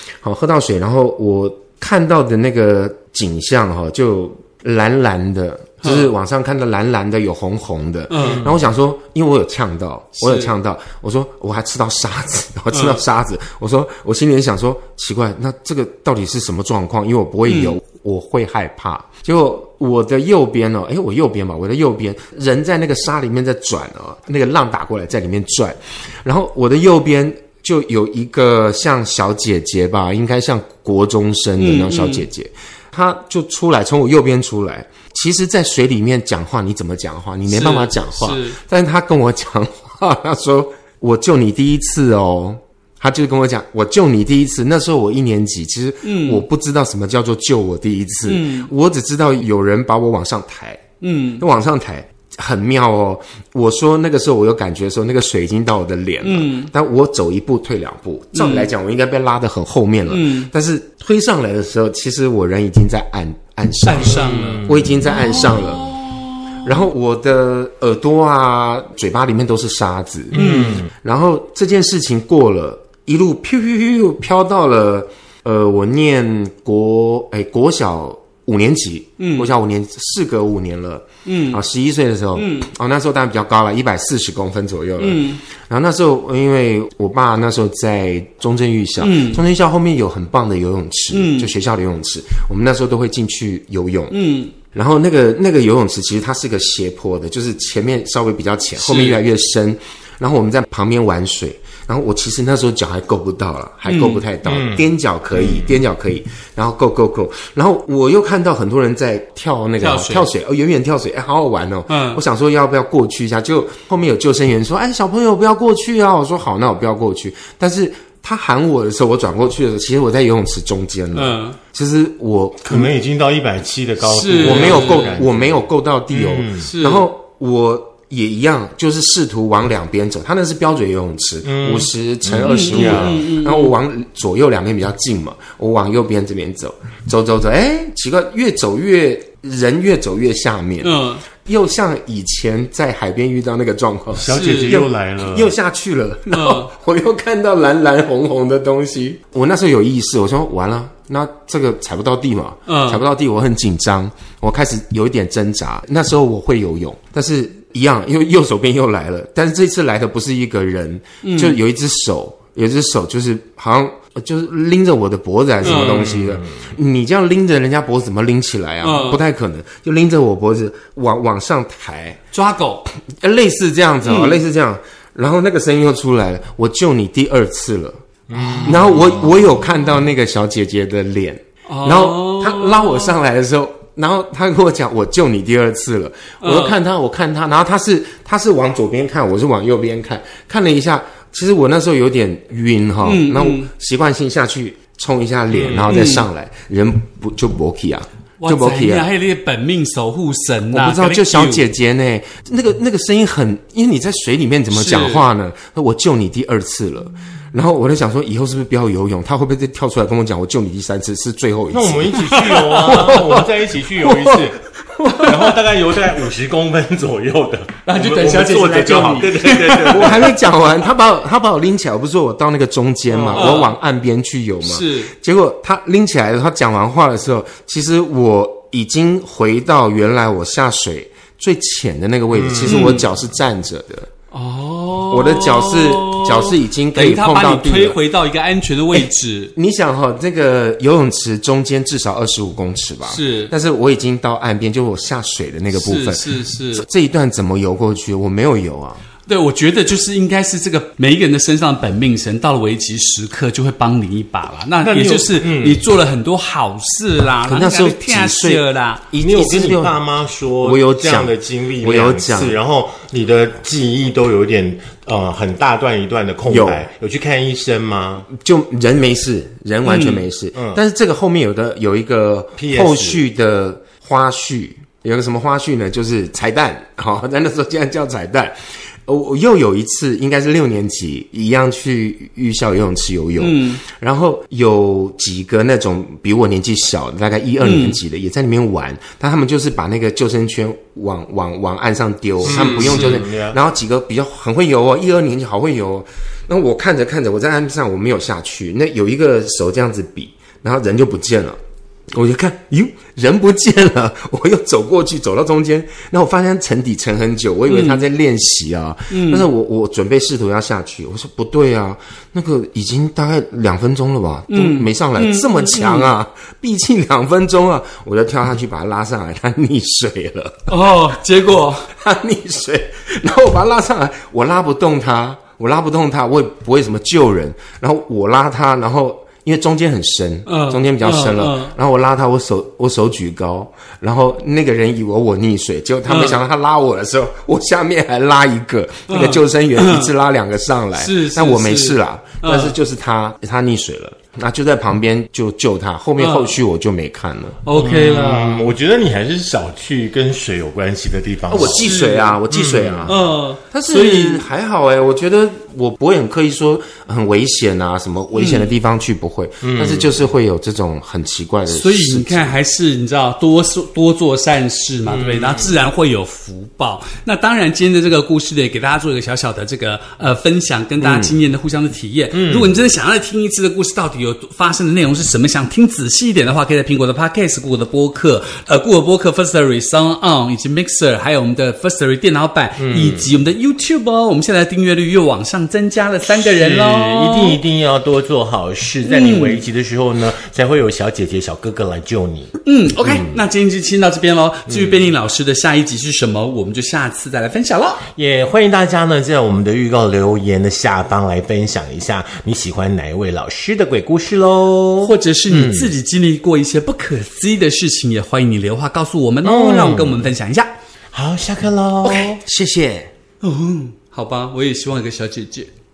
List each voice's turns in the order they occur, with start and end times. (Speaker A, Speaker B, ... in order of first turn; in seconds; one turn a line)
Speaker A: 0.2-50.8
Speaker B: 5.8-6.1
Speaker B: 8.1-8.5
Speaker C: 8.2-8.6
Speaker B: 10.2-10.5
Speaker B: 12.7-13.0
Speaker B: 17.4-17.8
Speaker B: 31.6-32.2
Speaker B: 37.5-38.6
Speaker B: 46.0-46.4
Speaker B: 48.2-48.7
Speaker B: 51.0-51.4
Speaker A: 51.4-65.9
Speaker B: 56.2-56.7
Speaker B: 58.3-58.7
Speaker B: 60.1-60.5
Speaker B: 63.9-66.7
Speaker C: 64.0-64.9
Speaker A: 66.6-94.2
Speaker C: 70.3-70.9
Speaker B: 70.3-70.8
Speaker B: 79.2-79.5
Speaker B: 81.2-81.6
Speaker B: 82.3-82.7
Speaker B: 85.0-85.4
Speaker B: 89.0-89.4
Speaker B: 91.1-91.5
Speaker B: 94.1-94.5
Speaker A: 94.7-122.9
Speaker B: 98.8-99.2
Speaker B: 103.8-104.2
Speaker C: 104.5-104.8
Speaker C: 105.4-105.7
Speaker B: 109.8-110.3
Speaker B: 111.9-112.2
Speaker B: 121.1-121.6
Speaker C: 122.6-126.7
Speaker B: 124.0-125.2
Speaker A: 124.4-172.2
Speaker B: 126.6-127.1
Speaker C: 131.4-133.2
Speaker B: 132.4-133.7
Speaker B: 140.8-141.2
Speaker C: 144.2-145.5
Speaker B: 144.3-144.8
Speaker B: 146.3-146.7
Speaker B: 152.7-153.0
Speaker B: 161.2-161.6
Speaker C: 165.6-166.7
Speaker B: 165.6-166.1
Speaker B: 168.8-169.2
Speaker B: 172.3-172.8
Speaker A: 173.1-178.0
Speaker B: 174.0-174.4
Speaker C: 178.3-179.4
Speaker B: 178.4-178.7
Speaker A: 178.6-199.1
Speaker B: 181.7-183.1
Speaker B: 186.4-186.7
Speaker B: 193.0-193.7
Speaker C: 195.5-195.9
Speaker B: 195.9-196.2
Speaker B: 198.4-201.6
Speaker A: 200.7-213.4
Speaker B: 204.7-205.2
Speaker C: 211.7-214.6
Speaker B: 212.2-213.4
Speaker A: 214.0-214.4
Speaker B: 215.0-215.3
Speaker C: 215.2-220.4
Speaker B: 217.8-220.3
Speaker A: 219.9-234.1
Speaker C: 223.1-223.6
Speaker B: 223.3-223.7
Speaker B: 224.6-225.1
Speaker C: 232.3-232.9
Speaker B: 232.6-233.1
Speaker B: 234.3-239.5
Speaker A: 235.1-238.0
Speaker A: 239.6-249.0
Speaker B: 243.1-243.5
Speaker B: 245.7-246.8
Speaker B: 249.3-259.0
Speaker C: 254.8-255.8
Speaker A: 257.5-260.0
Speaker C: 259.2-268.3
Speaker A: 260.6-262.6
Speaker A: 266.5-266.9
Speaker A: 268.3-301.6
Speaker B: 269.8-270.2
Speaker C: 270.5-270.8
Speaker C: 272.6-273.2
Speaker B: 283.4-283.8
Speaker B: 287.6-288.0
Speaker C: 292.4-293.6
Speaker B: 292.4-293.2
Speaker A: 302.1-320.7
Speaker B: 307.7-308.0
Speaker B: 309.1-309.4
Speaker B: 314.5-316.1
Speaker B: 320.7-321.9
Speaker A: 321.9-347.6
Speaker B: 330.4-331.7
Speaker B: 336.1-336.4
Speaker B: 339.1-340.1
Speaker B: 341.0-342.7
Speaker B: 346.2-346.6
Speaker B: 347.6-348.7
Speaker C: 347.8-351.8
Speaker A: 351.5-353.1
Speaker B: 351.7-352.4
Speaker C: 352.5-353.1
Speaker B: 353.1-354.4
Speaker A: 353.7-362.5
Speaker B: 358.3-358.7
Speaker C: 359.6-360.1
Speaker B: 361.7-387.6
Speaker C: 365.1-365.7
Speaker A: 371.0-371.4
Speaker C: 372.3-372.7
Speaker C: 382.8-383.2
Speaker C: 386.2-392.5
Speaker B: 389.1-389.6
Speaker B: 392.6-398.0
Speaker C: 393.0-393.4
Speaker C: 394.7-394.9
Speaker C: 398.1-405.9
Speaker B: 405.0-410.7
Speaker C: 409.4-410.3
Speaker C: 411.1-412.4
Speaker A: 412.1-413.1
Speaker B: 413.4-415.7